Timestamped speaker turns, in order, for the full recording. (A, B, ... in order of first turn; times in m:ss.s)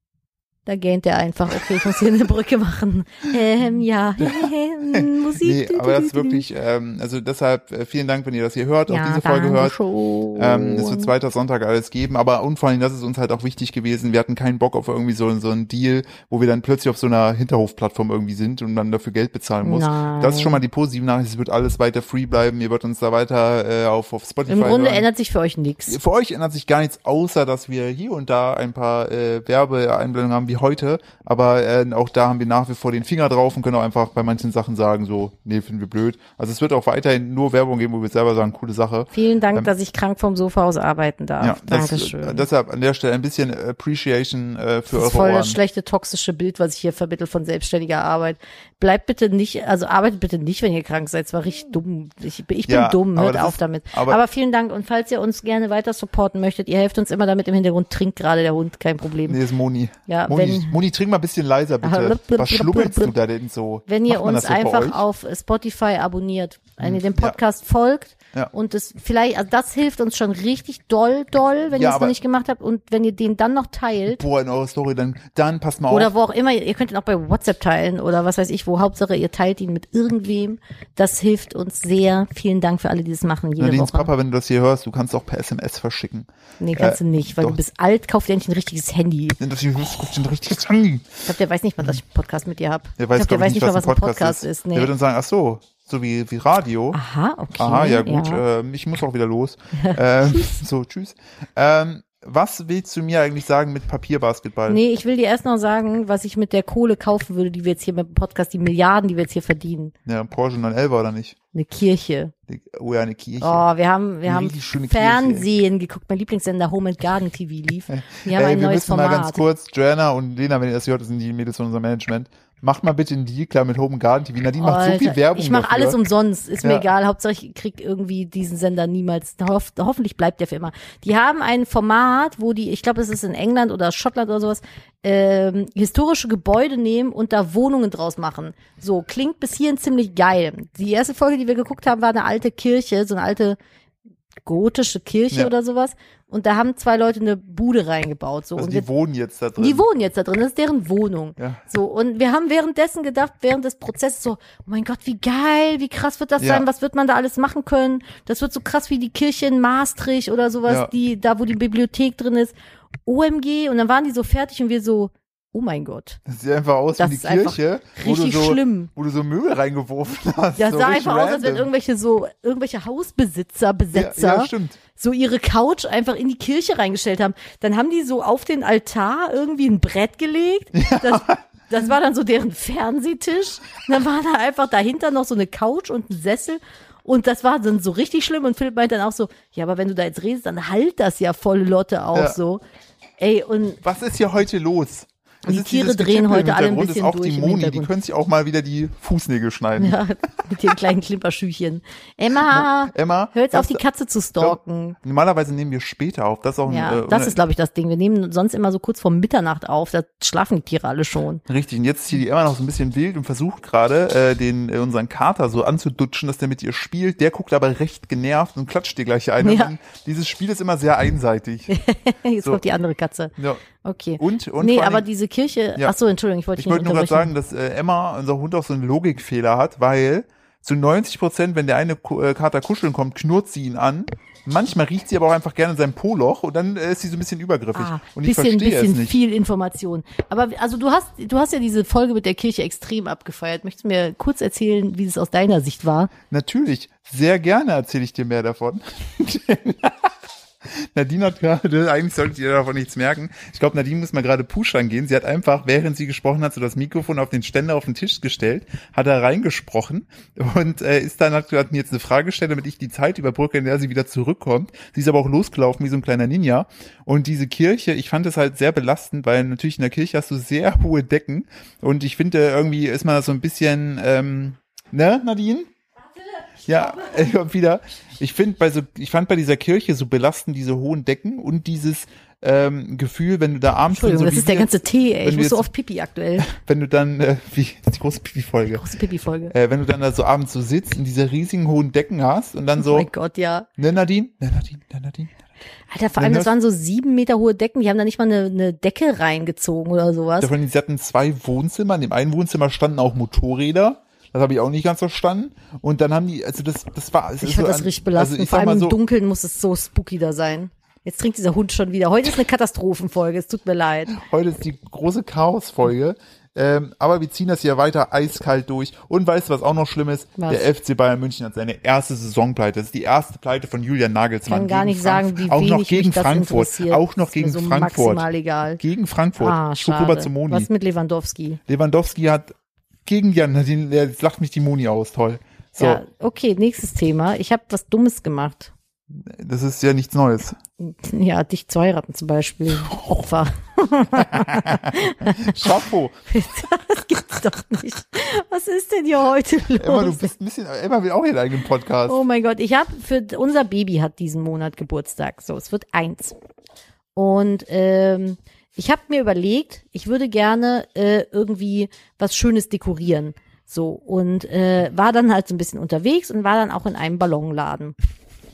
0:00.6-0:06.4 A
0:04.2-0:09.8 B
0:08.9-0:11.1 A
0:10.3-0:25.0 B
0:19.6-0:20.6 A
0:24.5-0:26.0 A
0:25.9-0:39.7 B
0:39.1-0:42.4 A
0:41.4-0:45.6 B
0:44.9-0:59.4 A
0:52.7-0:54.2 B
0:59.3-1:05.0 B
1:00.1-1:00.7 A
1:01.8-1:03.1 A
1:03.9-1:14.2 A
1:06.8-1:07.4 B
1:11.7-1:12.2 B
1:14.1-1:16.1 B
1:15.9-1:24.1 A
1:23.6-1:27.6 B
1:26.6-1:29.4 A
1:29.4-1:31.2 B
1:31.3-1:34.9 A
1:33.0-1:37.0 B
1:36.9-1:38.4 A
1:37.5-1:44.8 B
1:39.7-1:40.6 A
1:44.7-1:49.9 A
1:50.0-1:51.4 B
1:51.5-1:52.3 A
1:52.5-1:53.6 B
1:53.4-1:59.4 A
1:54.2-1:55.4 B
1:57.9-2:06.0 B
2:04.6-2:23.6 A
2:24.4-2:28.9 A
2:28.6-2:29.8 B
2:29.6-2:42.5 A
2:36.4-2:36.6 B
2:40.6-2:40.9 B
2:43.0-2:46.2 A
2:46.2-2:51.7 B
2:47.0-2:48.9 A
2:50.6-3:12.6 A
2:53.9-2:54.8 B
3:00.7-3:01.4 B
3:13.2-3:13.8 A
3:13.8-3:20.0 B
3:15.4-3:17.9 A
3:19.8-3:25.0 A
3:22.4-3:23.8 B
3:24.4-3:27.4 B
3:26.7-3:31.4 A
3:31.5-3:41.7 B
3:39.4-3:39.7 A
3:41.7-3:47.3 A
3:43.4-3:43.6 B
3:44.2-3:45.0 B
3:46.6-3:59.1 B
3:57.7-4:06.1 A
4:06.3-4:10.1 B
4:10.8-4:35.7 B
4:36.6-4:45.7 B
4:43.9-4:46.5 A
4:46.4-4:48.8 B
4:48.7-4:49.5 A
4:49.5-4:53.1 B
4:52.8-4:53.7 A
4:53.8-4:55.3 B
4:55.9-5:00.5 A
4:56.2-4:56.5 B
5:00.4-5:09.0 B
5:07.4-5:14.2 A
5:14.1-5:28.2 B
5:20.4-5:20.6 A
5:24.5-5:28.8 A
5:28.8-5:30.7 B
5:29.4-5:31.6 A
5:31.7-5:32.5 B
5:33.0-5:36.0 B
5:35.8-5:38.7 A
5:39.1-5:40.6 B
5:40.8-5:45.8 A
5:42.9-5:43.2 B
5:44.1-5:46.2 B
5:46.3-5:50.3 A
5:49.8-5:52.2 B
5:52.0-5:56.4 A
5:57.1-6:07.9 A